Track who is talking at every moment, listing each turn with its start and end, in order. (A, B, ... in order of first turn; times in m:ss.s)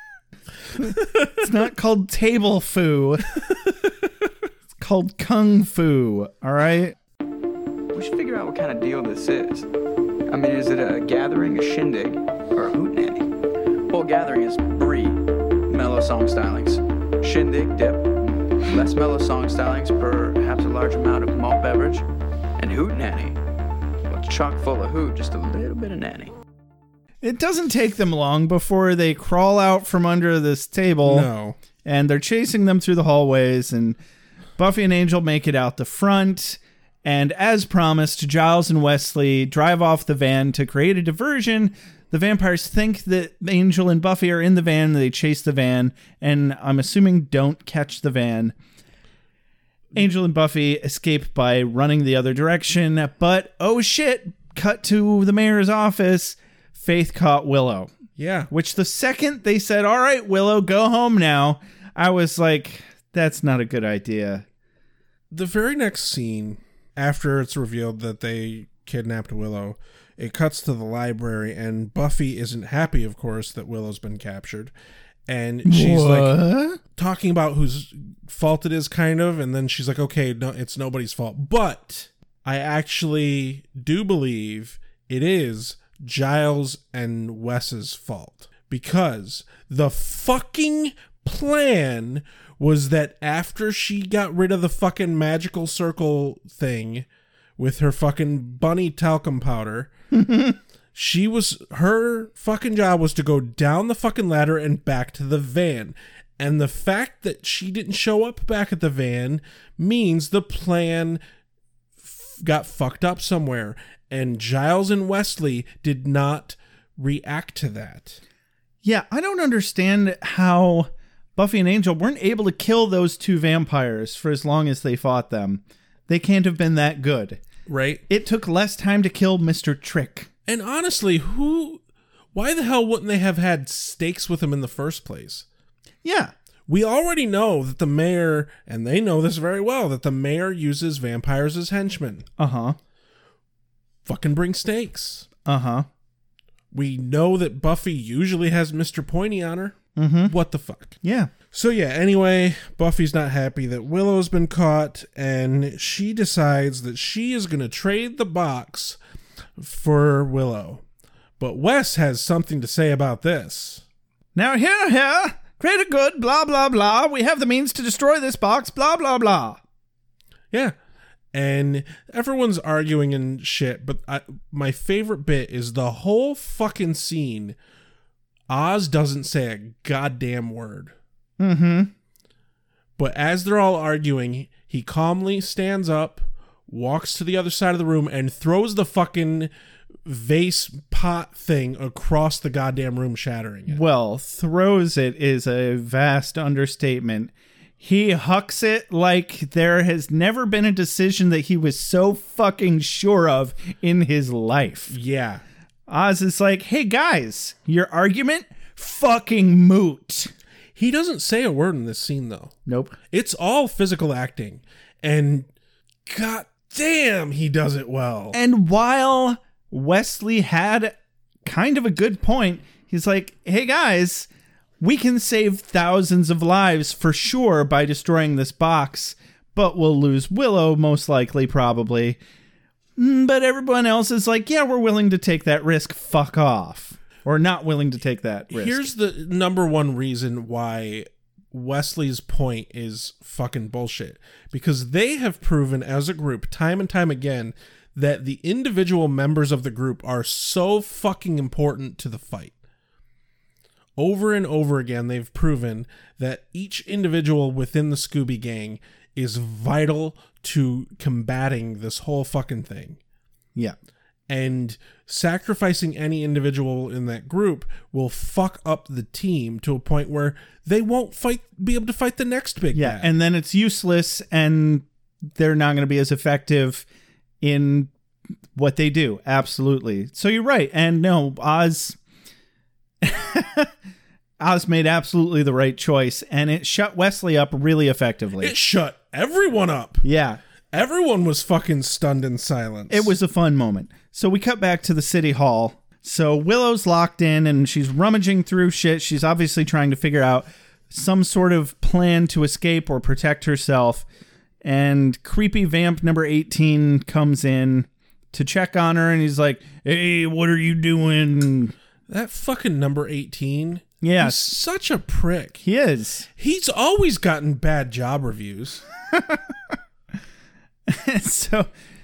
0:00.8-0:01.3 A
0:01.4-0:03.3 B
0:04.8-0:07.0 B
0:07.9-0:09.7 C
0:10.3-0:13.3 C
0:13.9-0:22.0 C
0:22.6-0:23.4 C
0:24.0-0:26.3 C
0:27.2-0:31.3 B
0:31.0-0:31.6 A
0:31.8-0:34.0 B
0:34.6-0:48.5 B
0:49.9-0:57.9 B
0:58.2-0:58.5 A
0:58.5-1:04.4 B
1:05.3-1:14.7 A
1:15.3-1:37.0 A
1:15.6-1:16.8 B
1:37.6-1:39.9 A
1:40.1-1:40.6 B
1:40.9-1:51.2 A
1:52.0-1:58.2 A
1:58.8-2:07.4 B
2:07.6-2:08.0 A
2:08.1-2:10.3 B
2:10.5-2:11.8 A
2:12.3-2:15.4 A
2:16.0-2:16.3 B
2:16.7-2:22.3 A
2:22.4-2:22.8 B
2:24.0-2:25.3 A
2:25.4-2:25.9 B
2:26.7-2:31.0 A
2:30.0-2:30.3 B
2:31.0-2:31.3 B
2:31.5-2:39.0 A
2:39.6-2:40.8 A
2:41.4-2:43.8 A
2:44.3-2:49.6 B
2:51.3-2:57.6 A
2:58.5-3:00.9 A
3:01.4-3:01.9 B
3:03.0-3:09.5 A
3:10.0-3:13.8 A
3:13.7-3:24.9 B
3:24.9-3:25.4 A
3:25.9-3:30.3 B
3:30.8-3:32.6 A
3:32.7-3:33.0 B
3:33.1-3:35.5 A
3:36.0-3:38.4 A
3:38.3-3:40.9 B
3:41.4-3:44.3 B
3:44.8-3:52.2 B
3:53.0-3:58.9 B
3:58.5-4:12.5 A
4:14.0-4:23.0 A
4:24.3-4:33.1 A
4:32.7-4:36.8 B
4:37.4-4:37.9 B
4:38.5-4:42.0 B
4:43.0-4:43.7 B
4:44.4-4:48.5 B
4:48.4-4:50.0 A
4:50.0-4:50.4 B
4:50.7-4:53.1 A
4:52.9-5:04.0 B
5:04.6-5:11.7 B
5:12.1-5:15.6 A
5:14.0-5:14.5 B
5:15.6-5:16.3 B
5:16.4-5:18.8 A
5:19.1-5:19.4 B
5:20.9-5:21.7 B